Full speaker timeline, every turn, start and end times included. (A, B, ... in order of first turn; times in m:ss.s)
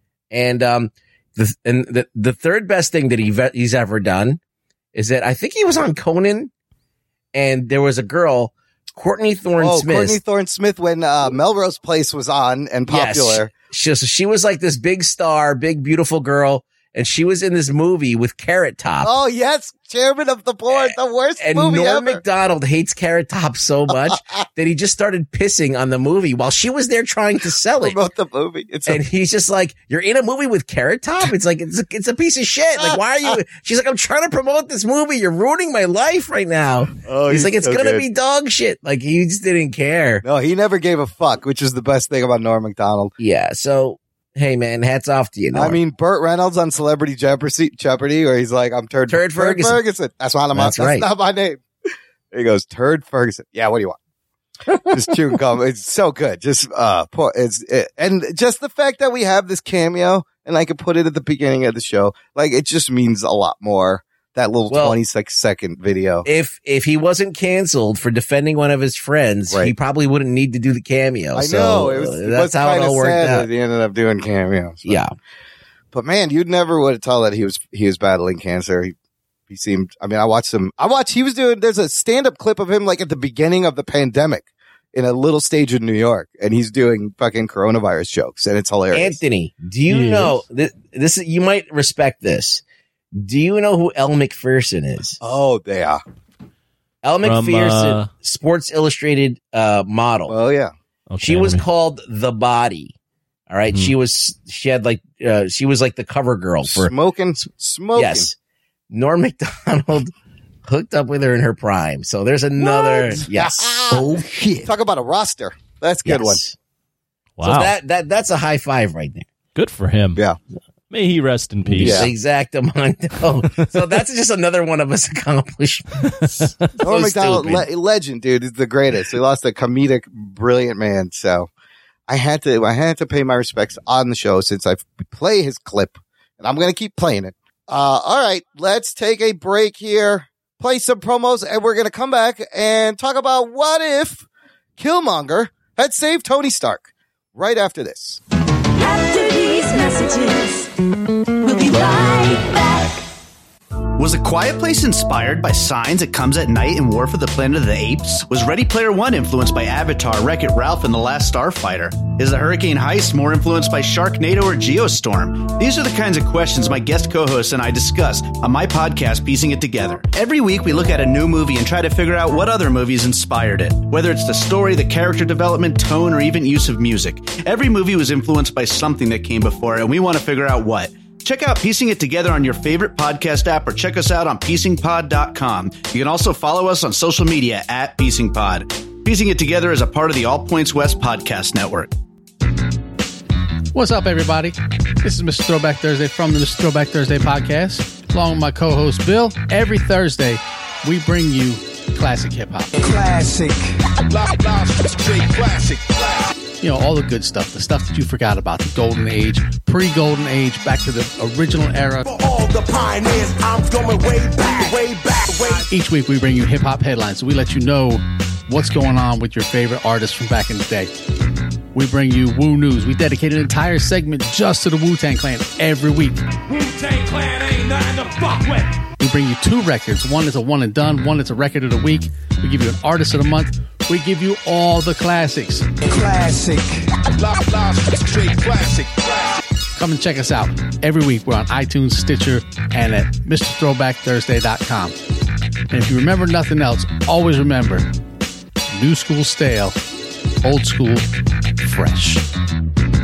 0:00.3-0:04.4 A
0:05.0-0:06.5 A
0:07.3-0:10.2 A
0:09.6-0:13.5 B
0:12.9-0:19.1 A
0:19.0-0:22.2 B
0:20.7-0:28.0 A
0:27.8-0:29.0 B
0:28.9-0:40.2 A
0:37.0-0:38.0 B
0:40.2-0:43.1 B
0:43.2-0:45.8 A
0:45.5-0:51.6 B
0:49.1-0:49.8 A
0:50.6-0:51.1 A
0:52.3-0:54.0 B
0:54.9-1:06.3 B
1:04.7-1:05.0 A
1:06.2-1:13.5 A
1:11.4-1:15.0 B
1:15.9-1:18.9 B
1:19.5-1:29.2 B
1:28.9-1:32.6 A
1:29.9-1:30.4 C
1:33.2-1:35.2 A
1:35.2-1:36.0 B
1:37.0-1:40.3 A
1:37.2-1:38.1 C
1:40.3-1:40.7 B
1:41.1-1:41.6 C
1:41.2-1:42.9 A
1:43.5-1:46.9 A
1:46.6-1:48.3 B
1:48.0-1:48.3 A
1:48.9-1:50.1 A
1:50.7-1:53.7 A
1:52.6-1:54.1 B
1:53.9-1:54.7 D
1:54.6-1:56.4 B
1:56.1-1:56.5 A
1:57.4-1:57.7 C
1:57.4-1:59.3 A
1:59.6-2:00.2 C
2:00.9-2:02.1 C
2:01.7-2:07.7 A
2:01.8-2:02.1 B
2:06.1-2:06.5 C
2:06.8-2:11.5 B
2:12.1-2:24.2 B
2:24.8-2:28.2 B
2:28.8-2:30.7 E
2:31.4-2:33.0 E
2:34.0-3:11.9 F
3:13.7-3:22.7 G
3:22.8-3:26.3 D
3:26.6-3:32.0 G
3:32.0-3:35.6 D
3:35.7-3:40.9 G
3:41.7-3:46.4 G
3:46.5-3:48.6 D
3:49.0-3:55.7 G
3:55.8-3:59.4 D
3:59.8-4:05.0 G
4:05.7-4:07.9 G
4:08.7-4:09.8 G
4:10.4-4:11.1 G
4:11.6-4:12.3 G